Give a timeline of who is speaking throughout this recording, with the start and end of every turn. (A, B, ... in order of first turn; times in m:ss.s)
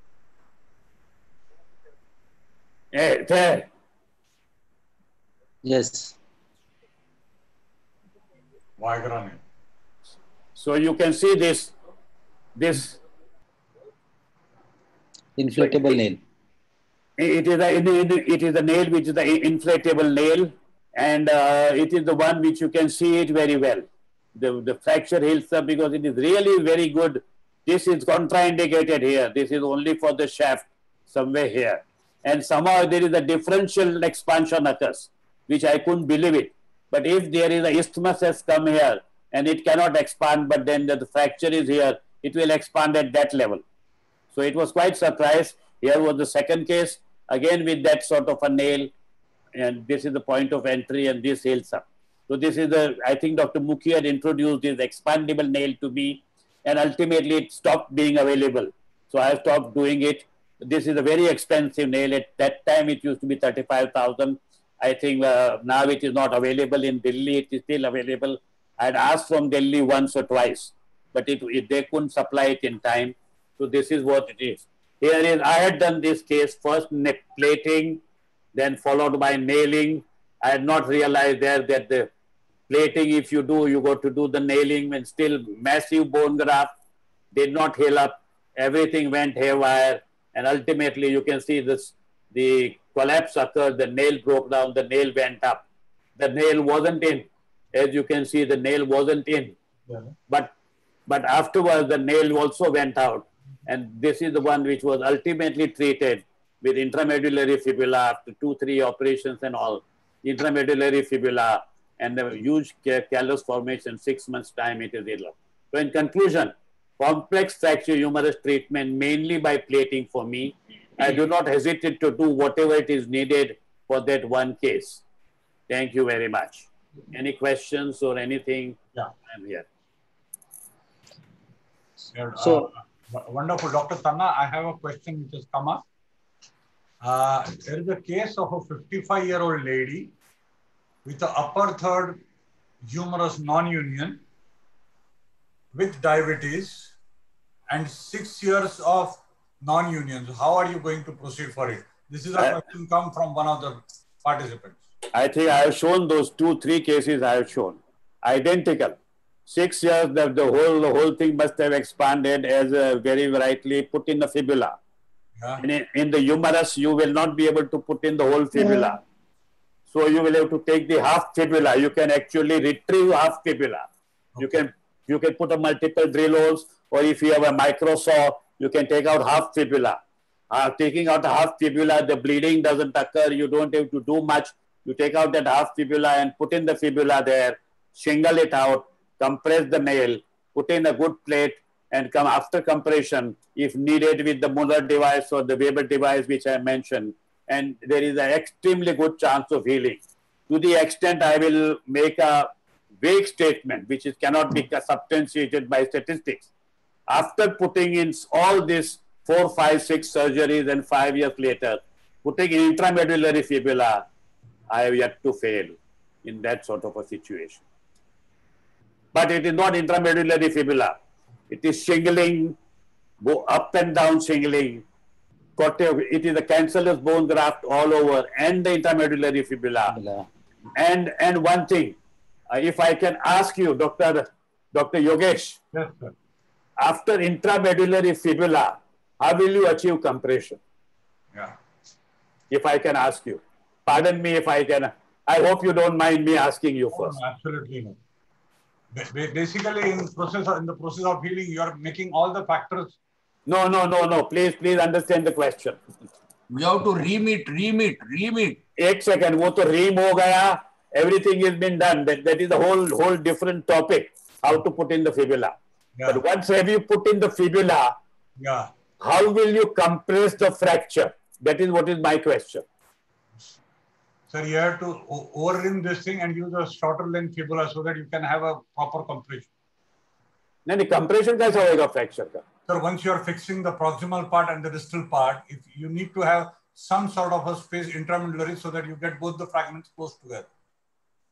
0:02.9-0:03.7 A
0:05.6-0:06.2 B
0:08.8-0:09.4 C
0:10.6-0:11.7 A
0:12.6-0:13.0 A
0:15.4-0:16.2 B
0:15.6-0:16.0 A
0:17.2-0:43.6 A
0:44.3-0:48.9 A
0:49.6-1:18.0 A
1:18.5-1:22.1 A
1:22.7-1:26.7 A
1:27.3-1:35.6 A
1:36.2-1:39.6 A
1:39.9-1:40.1 C
1:41.1-2:05.0 A
2:05.7-2:08.8 A
2:09.3-2:09.6 A
2:12.1-2:15.8 C
2:12.4-2:12.7 B
2:17.0-2:20.1 C
2:21.0-2:22.2 C
2:22.8-2:24.2 C
2:25.7-2:26.9 C
2:27.7-2:34.8 C
2:35.1-2:39.0 A
2:39.5-2:44.8 A
2:45.4-2:45.6 C
2:45.6-2:49.0 A
2:49.9-2:53.9 A
2:54.4-3:22.5 A
3:23.0-3:26.5 A
3:27.1-3:34.0 A
3:34.7-3:37.6 A
3:39.1-3:41.0 A
3:41.5-3:42.6 A
3:43.2-3:44.8 A
3:45.6-3:50.0 A
3:49.9-3:50.3 B
3:50.8-3:52.0 A
3:52.5-3:55.6 A
3:55.7-3:56.1 C
3:56.8-4:00.6 A
4:02.5-4:07.2 A
4:06.9-4:08.0 C
4:08.9-4:13.0 C
4:13.5-4:15.8 A
4:16.5-4:18.6 D
4:18.8-4:27.9 A
4:26.0-4:26.2 C
4:28.4-4:28.7 C
4:29.0-4:32.6 A
4:34.3-4:39.5 C
4:40.7-4:42.4 A
4:42.7-4:50.5 C